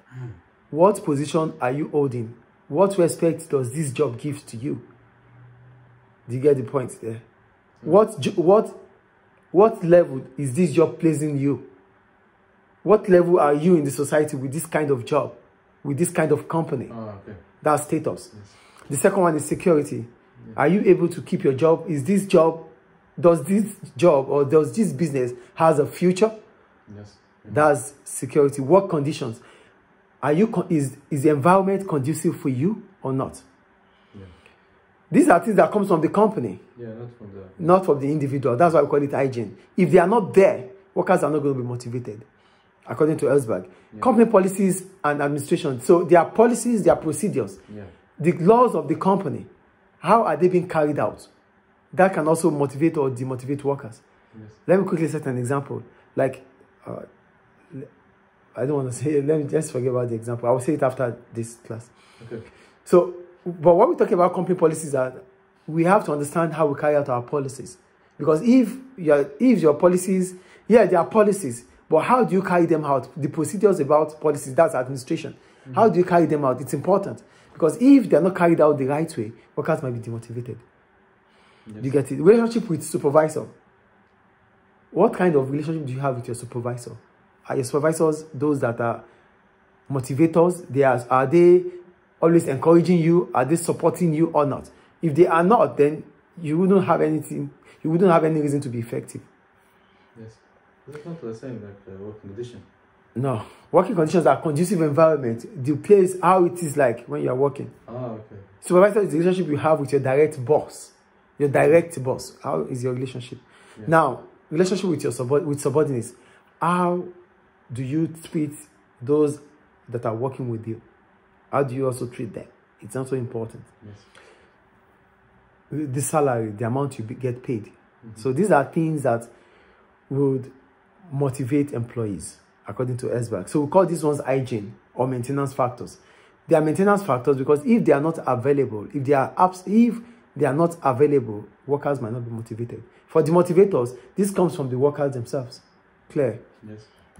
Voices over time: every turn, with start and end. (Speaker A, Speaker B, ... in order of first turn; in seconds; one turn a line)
Speaker A: 0.7-4.8
Speaker A: 6.3-7.2
Speaker A: 7.8-8.8
Speaker A: 9.5-11.7
Speaker A: 12.8-18.3
Speaker B: 16.9-17.6
Speaker B: 18.3-18.6
Speaker A: 18.9-26.3
Speaker B: 26.9-27.7
Speaker A: 27.5-29.4
Speaker A: 30.2-33.4
Speaker A: 35.1-36.6
Speaker B: 36.7-37.6
Speaker A: 37.6-42.2
Speaker A: 42.9-47.6
Speaker B: 47.7-47.9
Speaker A: 48.2-49.5
Speaker A: 50.0-51.3
Speaker A: 51.9-54.0
Speaker B: 54.3-54.6
Speaker A: 54.6-57.0
Speaker A: 58.5-61.9
Speaker B: 62.2-62.5
Speaker A: 62.8-80.6
Speaker B: 75.6-75.9
Speaker B: 81.7-81.9
Speaker A: 81.8-83.5
Speaker A: 84.9-89.0
Speaker A: 89.9-99.2
Speaker B: 100.1-102.7
Speaker A: 103.1-107.7
Speaker B: 107.8-108.5
Speaker A: 108.6-117.1
Speaker A: 117.7-120.8
Speaker A: 121.5-123.7
Speaker B: 123.8-124.1
Speaker A: 125.7-129.3
Speaker A: 130.1-130.5
Speaker A: 131.1-146.6
Speaker B: 146.6-146.9